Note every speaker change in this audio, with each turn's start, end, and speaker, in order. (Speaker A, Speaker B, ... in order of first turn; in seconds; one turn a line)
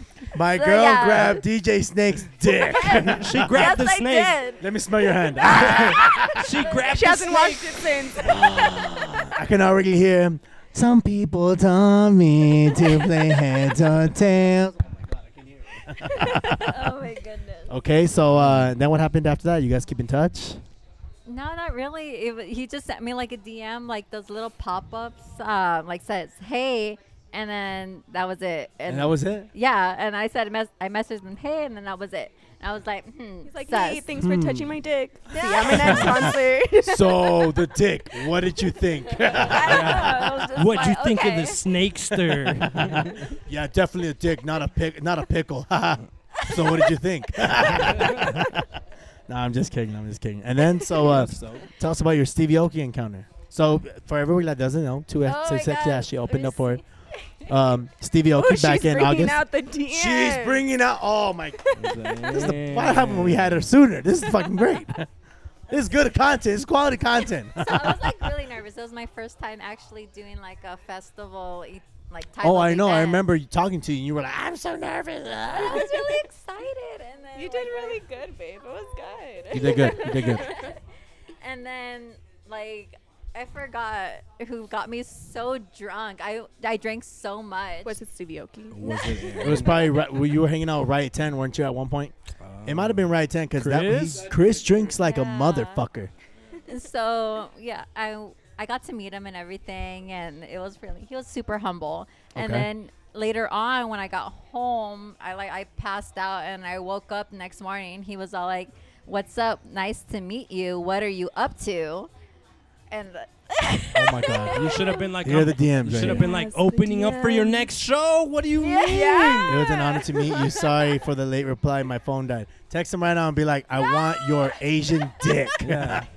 Speaker A: 0.3-3.7
Speaker B: 0.5-1.4
Speaker B: 2.7-4.6
Speaker C: 3.0-4.3
Speaker A: 4.6-6.6
Speaker C: 5.5-7.9
Speaker D: 6.8-8.4
Speaker A: 8.2-16.9
Speaker B: 16.0-17.7
Speaker A: 17.7-20.6
Speaker C: 18.3-18.7
Speaker B: 21.2-34.0
Speaker A: 28.9-29.5
Speaker D: 33.4-37.5
Speaker A: 34.2-34.7
Speaker B: 35.3-36.3
Speaker A: 35.6-40.3
Speaker B: 39.2-41.6
Speaker C: 39.6-43.2
Speaker A: 42.6-48.7
Speaker A: 49.3-56.8
Speaker C: 51.0-51.7
Speaker B: 55.2-56.8
Speaker A: 57.5-65.0
Speaker D: 58.4-60.6
Speaker C: 61.7-63.7
Speaker A: 65.7-68.3
Speaker B: 67.6-73.2
Speaker A: 72.4-76.0
Speaker B: 75.5-78.0
Speaker D: 75.8-76.0
Speaker D: 77.4-80.7
Speaker A: 79.5-80.5
Speaker B: 79.6-80.8
Speaker B: 81.4-88.0
Speaker D: 87.8-89.7
Speaker C: 88.7-89.8
Speaker A: 89.4-96.1
Speaker C: 92.4-94.3
Speaker B: 94.8-95.8
Speaker B: 96.7-112.1
Speaker A: 102.3-102.7
Speaker B: 112.9-115.1
Speaker A: 113.9-116.3
Speaker C: 114.3-119.5
Speaker B: 116.0-117.7
Speaker B: 118.6-120.7
Speaker D: 118.8-120.0
Speaker A: 119.5-126.1
Speaker B: 123.8-124.5
Speaker C: 125.6-126.1